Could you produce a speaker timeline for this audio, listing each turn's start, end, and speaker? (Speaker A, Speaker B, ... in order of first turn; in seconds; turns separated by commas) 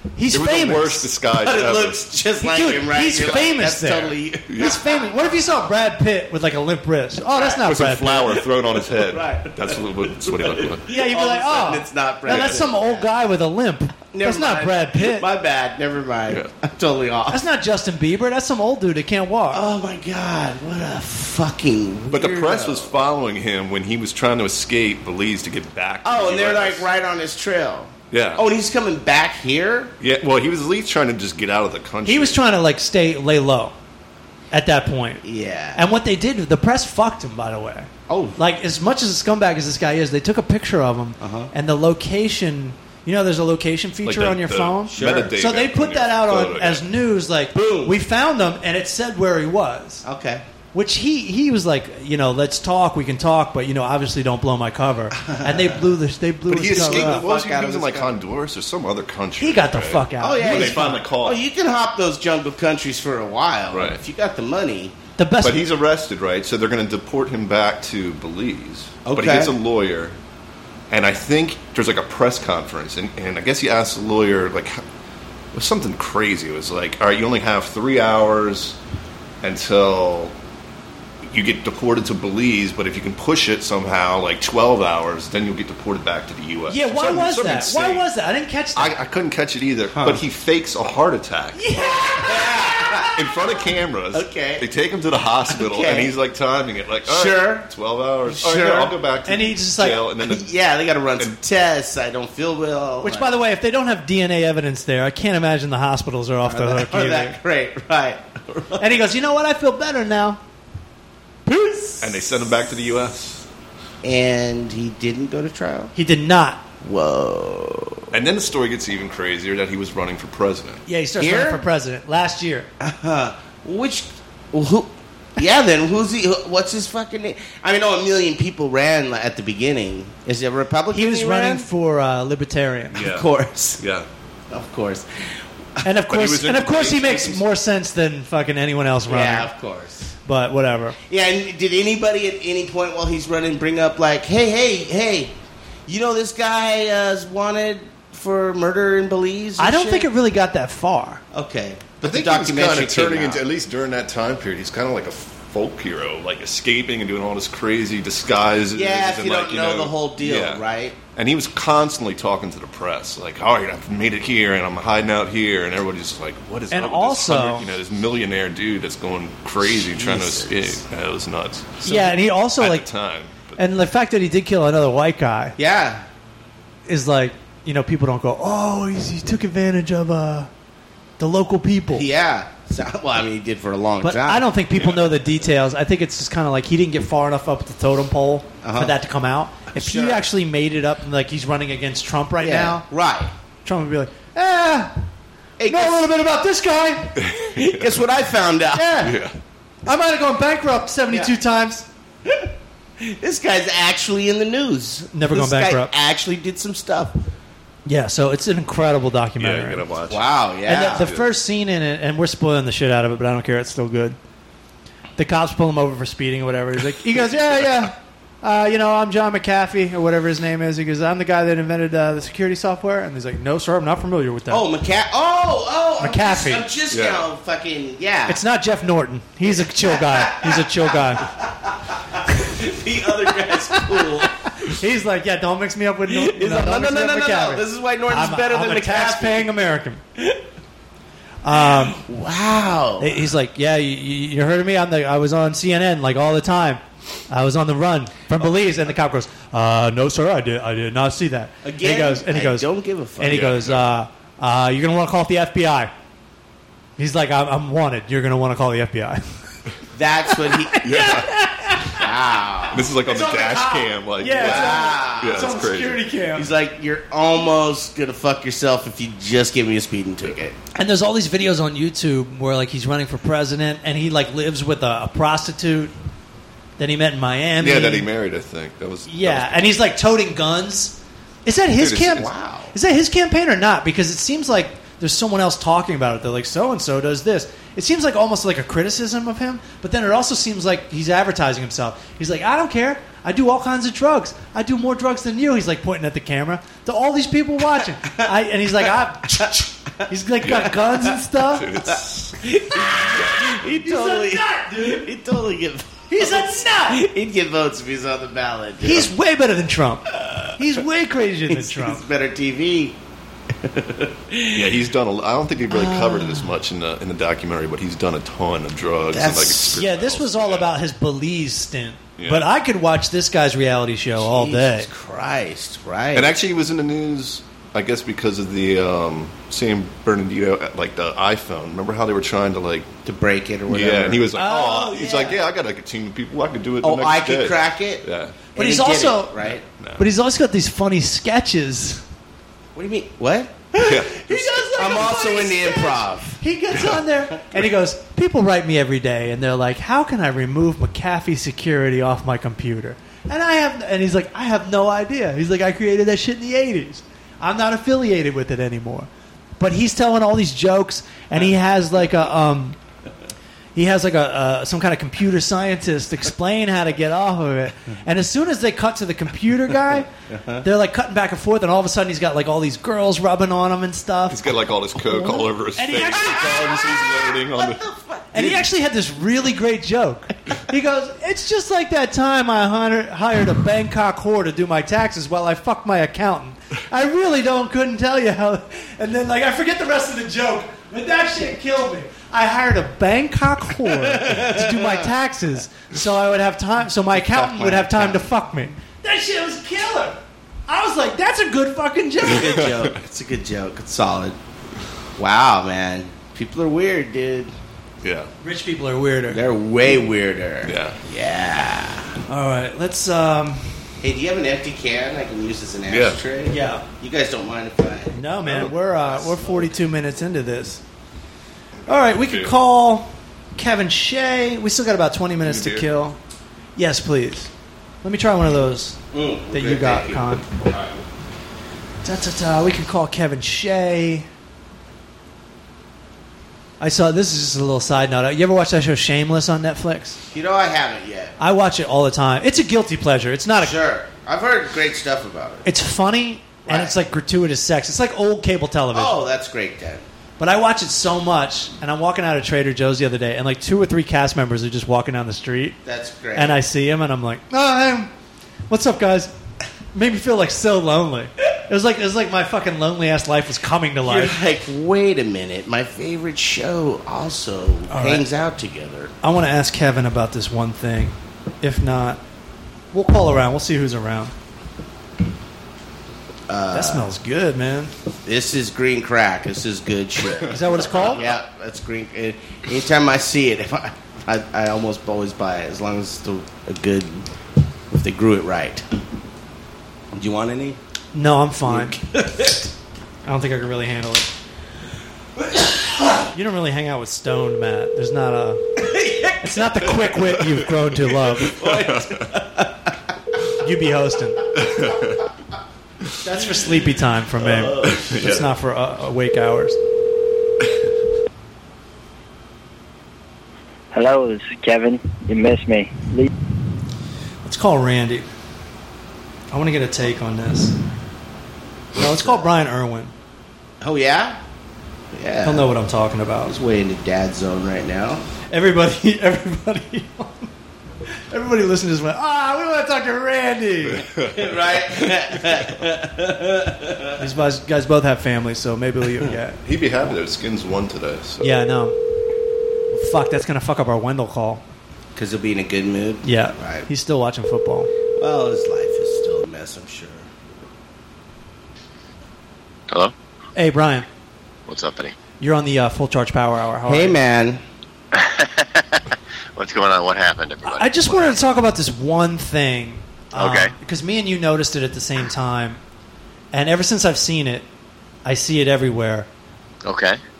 Speaker A: 0.1-1.1, Speaker B: 0.3-2.0, Speaker C: 1.3-5.3, Speaker A: 2.4-8.3, Speaker B: 4.5-4.8, Speaker C: 7.3-7.6, Speaker B: 7.6-10.8, Speaker C: 8.3-13.1, Speaker A: 10.9-15.2, Speaker B: 12.3-12.6, Speaker C: 14.1-17.4, Speaker A: 17.3-19.6, Speaker C: 19.5-23.0, Speaker B: 22.1-26.9, Speaker C: 26.0-29.9, Speaker B: 28.1-28.4, Speaker B: 30.0-32.4, Speaker A: 32.0-33.7, Speaker A: 34.5-35.2, Speaker C: 35.2-35.8, Speaker A: 35.7-50.0, Speaker C: 38.1-38.4, Speaker C: 41.2-41.5, Speaker B: 44.0-46.9, Speaker C: 44.9-45.3, Speaker C: 47.5-48.0, Speaker C: 50.0-50.4, Speaker A: 50.7-57.2, Speaker C: 55.2-55.8, Speaker B: 56.5-61.4, Speaker C: 56.7-58.2, Speaker A: 59.4-61.0, Speaker C: 60.2-64.9, Speaker B: 63.7-64.0, Speaker A: 65.2-65.7, Speaker B: 65.4-70.2, Speaker C: 69.0-69.5, Speaker B: 70.9-74.8, Speaker B: 75.5-78.8, Speaker B: 79.4-80.3, Speaker B: 81.3-88.1, Speaker A: 86.7-89.0, Speaker B: 88.7-91.6, Speaker C: 89.9-90.2, Speaker A: 91.5-93.1, Speaker C: 92.1-93.1, Speaker B: 93.1-100.5, Speaker C: 94.1-94.6, Speaker C: 95.5-96.1, Speaker C: 97.0-97.7, Speaker C: 98.3-98.9, Speaker A: 98.6-100.0, Speaker C: 100.2-103.3, Speaker A: 103.0-107.4, Speaker C: 106.5-109.0, Speaker A: 108.8-110.4, Speaker A: 111.5-112.2, Speaker B: 112.0-113.4, Speaker C: 114.0-115.9, Speaker A: 115.9-116.6, Speaker C: 116.8-118.1, Speaker B: 118.1-120.8, Speaker A: 120.8-122.7, Speaker C: 121.2-121.6, Speaker C: 122.8-131.7, Speaker A: 130.9-133.0, Speaker B: 132.9-133.3, Speaker C: 133.0-133.8, Speaker B: 133.8-134.1, Speaker C: 134.5-135.8, Speaker A: 135.8-139.5, Speaker B: 136.1-137.4, Speaker C: 139.1-140.1, Speaker A: 140.2-141.0, Speaker C: 141.1-145.3, Speaker C: 145.9-150.1, Speaker A: 149.6-151.2, Speaker C: 151.3-153.4, Speaker B: 152.0-160.6, Speaker C: 158.7-161.0, Speaker B: 161.1-173.6, Speaker A: 166.7-167.7, Speaker C: 169.6-170.8, Speaker A: 171.8-172.9, Speaker A: 173.6-175.5, Speaker C: 175.6-176.1, Speaker A: 176.9-180.5, Speaker A: 181.2-182.1, Speaker C: 181.9-184.4, Speaker A: 184.0-192.8, Speaker B: 184.8-185.1, Speaker C: 188.6-188.9, Speaker C: 189.7-190.3, Speaker C: 192.4-193.3, Speaker A: 193.6-194.9, Speaker C: 195.6-196.1, Speaker A: 195.7-197.2, Speaker B: 197.2-198.1, Speaker C: 197.5-199.0, Speaker A: 198.7-199.2, Speaker B: 199.0-199.4, Speaker A: 199.8-201.8, Speaker C: 202.2-207.2, Speaker A: 205.1-205.9, Speaker A: 207.8-209.8, Speaker B: 209.4-210.2, Speaker C: 210.1-211.1, Speaker A: 210.7-214.2, Speaker B: 210.9-211.2, Speaker A: 215.2-224.6, Speaker C: 224.5-228.4, Speaker A: 226.0-226.7, Speaker B: 226.9-227.3, Speaker A: 228.3-231.3, Speaker C: 229.6-234.4, Speaker A: 233.7-240.0, Speaker C: 236.1-239.5, Speaker A: 241.4-242.0, Speaker C: 241.5-243.2, Speaker A: 243.0-252.7, Speaker C: 251.6-253.4, Speaker A: 253.2-255.9, Speaker B: 253.3-253.8, Speaker A: 257.0-259.2, Speaker C: 259.9-260.8, Speaker A: 260.3-262.1, Speaker B: 260.8-261.3, Speaker C: 262.0-262.9, Speaker B: 262.7-266.0, Speaker A: 263.0-266.5, Speaker C: 264.3-265.7, Speaker C: 266.3-270.5, Speaker A: 270.7-275.9, Speaker A: 276.8-278.1, Speaker B: 277.6-279.7, Speaker A: 279.1-301.7, Speaker B: 281.8-282.3, Speaker C: 282.2-282.7, Speaker C: 298.0-298.3, Speaker C: 299.2-300.0, Speaker B: 300.4-300.8, Speaker B: 301.4-303.6, Speaker C: 301.9-309.1, Speaker A: 303.7-305.1, Speaker A: 306.1-307.1, Speaker A: 308.8-312.0, Speaker C: 310.1-310.5, Speaker C: 311.5-313.0, Speaker C: 313.6-314.8, Speaker B: 314.5-320.7, Speaker C: 315.7-316.5, Speaker C: 319.1-319.8, Speaker A: 319.7-324.9, Speaker B: 322.2-322.5, Speaker C: 324.2-326.3, Speaker B: 326.1-332.9, Speaker C: 333.0-334.3, Speaker B: 333.7-338.4, Speaker A: 334.3-335.3, Speaker C: 335.0-335.4, Speaker C: 336.8-339.6, Speaker A: 338.5-339.4, Speaker B: 339.4-340.1, Speaker A: 340.0-342.0, Speaker C: 342.8-343.6, Speaker A: 343.7-362.8, Speaker B: 343.8-344.8, Speaker C: 344.8-346.4, Speaker A: 363.7-370.1, Speaker C: 370.3-370.6, Speaker A: 370.6-374.4, Speaker B: 374.3-377.8, Speaker A: 375.1-376.8, Speaker C: 376.2-378.3, Speaker A: 378.3-402.6, Speaker B: 378.3-378.6, Speaker C: 394.1-395.1, Speaker C: 397.2-398.2, Speaker C: 402.3-404.4, Speaker C: 405.2-407.5, Speaker B: 408.0-408.3, Speaker A: 408.4-409.4, Speaker C: 409.3-412.1, Speaker B: 410.6-410.9, Speaker A: 412.3-413.7, Speaker C: 414.0-419.7, Speaker B: 415.9-416.2, Speaker A: 416.5-416.8, Speaker A: 418.1-420.8, Speaker B: 418.4-418.7, Speaker B: 421.9-422.5, Speaker A: 421.9-426.2, Speaker B: 425.4-425.9, Speaker A: 426.8-427.5, Speaker A: 428.0-429.0, Speaker C: 429.1-430.3, Speaker A: 429.5-430.5, Speaker A: 432.0-434.3, Speaker A: 436.8-440.2, Speaker C: 440.3-441.3, Speaker A: 441.4-443.8, Speaker C: 443.6-445.6, Speaker A: 445.6-449.1, Speaker C: 446.7-446.9, Speaker C: 448.9-450.0, Speaker A: 450.4-455.8, Speaker C: 455.8-456.6, Speaker A: 456.3-458.1, Speaker A: 458.7-459.3, Speaker A: 459.9-464.4, Speaker C: 464.0-469.1, Speaker A: 467.9-468.2, Speaker A: 469.2-472.2, Speaker A: 472.9-474.3, Speaker C: 476.5-477.1, Speaker A: 476.7-477.9, Speaker C: 478.2-487.3, Speaker A: 480.5-481.2, Speaker C: 487.9-488.8, Speaker C: 490.1-490.8, Speaker A: 491.1-492.0, Speaker C: 491.7-492.7, Speaker A: 493.2-494.3, Speaker A: 496.3-498.8, Speaker C: 498.8-499.9, Speaker A: 499.4-501.6, Speaker B: 501.4-502.3, Speaker C: 501.5-502.9, Speaker A: 503.6-504.4, Speaker B: 504.5-505.2, Speaker A: 506.2-509.8, Speaker C: 507.4-508.0, Speaker B: 507.8-508.5, Speaker D: 513.9-516.3, Speaker A: 517.4-518.3, Speaker A: 519.5-520.8, Speaker A: 521.9-523.1, Speaker C: 522.0-522.5, Speaker C: 523.8-524.4, Speaker C: 525.1-525.7, Speaker A: 525.4-526.5, Speaker C: 526.5-528.2, Speaker A: 528.5-530.5, Speaker A: 531.1-534.1, Speaker B: 533.9-535.4, Speaker C: 534.3-537.2, Speaker A: 537.2-539.6, Speaker B: 539.6-541.5, Speaker A: 541.4-542.0, Speaker A: 542.9-544.6, Speaker C: 545.1-546.9, Speaker A: 546.2-547.9, Speaker C: 548.2-550.2, Speaker A: 553.5-554.0, Speaker E: 554.7-555.1, Speaker A: 555.4-557.2, Speaker C: 556.8-557.6, Speaker E: 558.1-561.3, Speaker A: 560.6-565.8, Speaker E: 563.3-563.7, Speaker A: 566.5-567.6, Speaker A: 568.2-569.3, Speaker E: 569.8-570.2